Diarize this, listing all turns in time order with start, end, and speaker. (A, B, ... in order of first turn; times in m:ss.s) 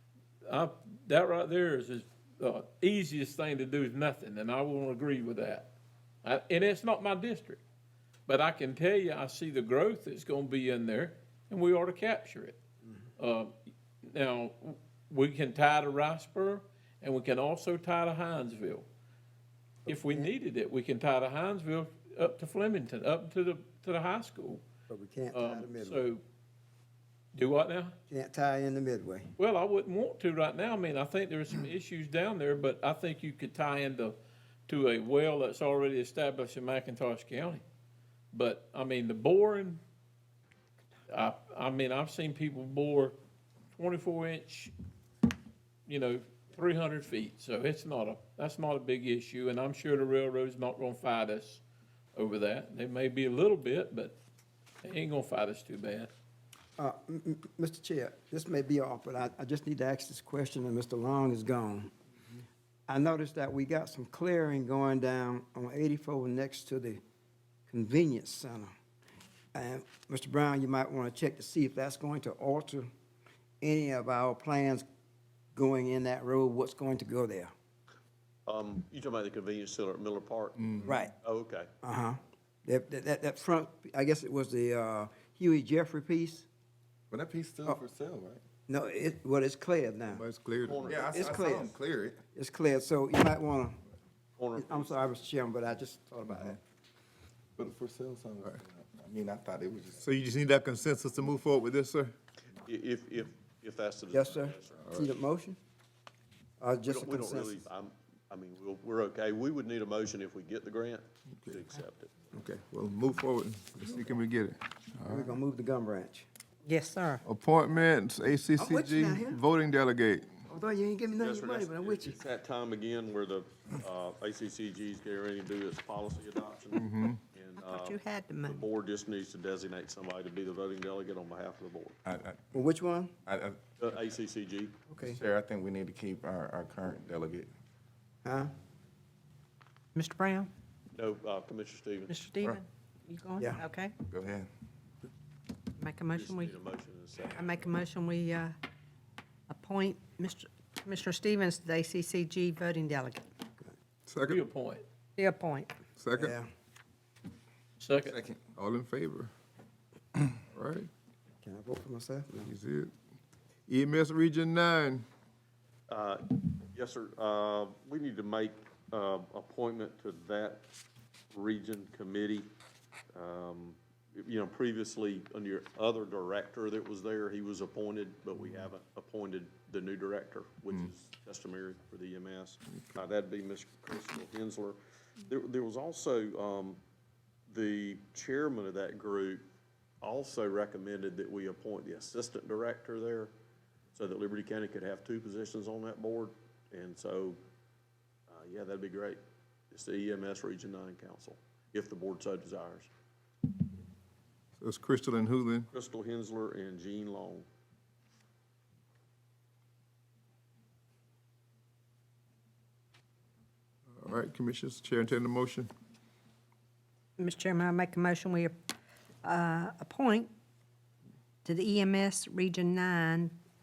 0:00.5-0:05.7 A
0:06.2-0:07.6 A
0:08.3-0:12.6 A
0:13.2-0:18.9 A
0:19.8-0:20.3 B
0:19.9-0:24.6 A
0:24.9-0:26.0 B
0:25.3-0:26.2 A
0:27.3-0:27.9 A
0:28.1-0:29.3 B
0:29.4-0:34.2 A
0:34.7-0:37.6 A
0:38.3-0:39.8 A
0:41.1-0:43.2 A
0:43.7-0:44.7 A
0:45.9-0:51.6 A
0:52.2-0:54.2 A
0:54.8-0:56.1 A
0:56.8-1:01.9 B
1:02.9-1:07.0 B
1:07.7-1:08.7 B
1:09.6-1:12.9 B
1:13.6-1:14.8 B
1:15.6-1:17.5 B
1:18.5-1:21.7 C
1:20.8-1:21.1 B
1:21.8-1:26.5 B
1:27.1-1:28.4 D
1:28.7-1:30.2 B
1:30.1-1:30.9 E
1:30.6-1:31.4 C
1:30.8-1:32.2 D
1:31.1-1:31.8 B
1:32.3-1:33.8 B
1:34.4-1:35.1 C
1:34.6-1:36.6 B
1:37.6-1:40.0 D
1:40.0-1:42.1 E
1:42.6-1:44.8 C
1:44.1-1:45.6 B
1:44.8-1:45.1 E
1:46.6-1:47.7 B
1:46.9-1:52.1 C
1:52.3-1:55.4 E
1:55.1-1:56.3 B
1:56.6-1:57.2 F
1:57.2-2:00.4 E
1:58.6-1:59.4 B
2:00.5-2:02.2 B
2:01.2-2:12.0 C
2:06.7-2:07.2 E
2:07.6-2:08.6 F
2:12.0-2:12.4 D
2:12.5-2:13.1 B
2:13.2-2:13.6 D
2:13.8-2:14.8 C
2:14.9-2:15.2 B
2:15.0-2:17.5 D
2:18.2-2:18.5 B
2:20.0-2:20.5 F
2:20.9-2:22.2 C
2:22.1-2:24.0 F
2:24.1-2:24.5 D
2:25.8-2:26.6 F
2:26.1-2:27.7 C
2:27.3-2:28.6 F
2:29.5-2:33.3 F
2:34.1-2:34.4 E
2:34.2-2:34.8 A
2:35.2-2:35.7 F
2:36.0-2:36.4 E
2:36.2-2:36.5 B
2:37.8-2:38.2 A
2:38.0-2:38.4 D
2:38.4-2:39.3 E
2:40.5-2:40.9 E
2:41.4-2:42.5 B
2:42.4-2:42.9 E
2:43.7-2:45.0 E
2:45.9-2:50.7 C
2:51.3-2:52.5 C
2:53.1-3:06.8 C
3:07.5-3:09.4 C
3:10.0-3:13.3 C
3:13.9-3:17.4 C
3:18.3-3:19.2 C
3:19.7-3:22.9 C
3:24.6-3:25.7 E
3:25.7-3:27.5 C
3:34.0-3:35.7 E
3:37.2-3:38.6 F
3:39.2-3:40.3 F
3:41.4-3:43.4 F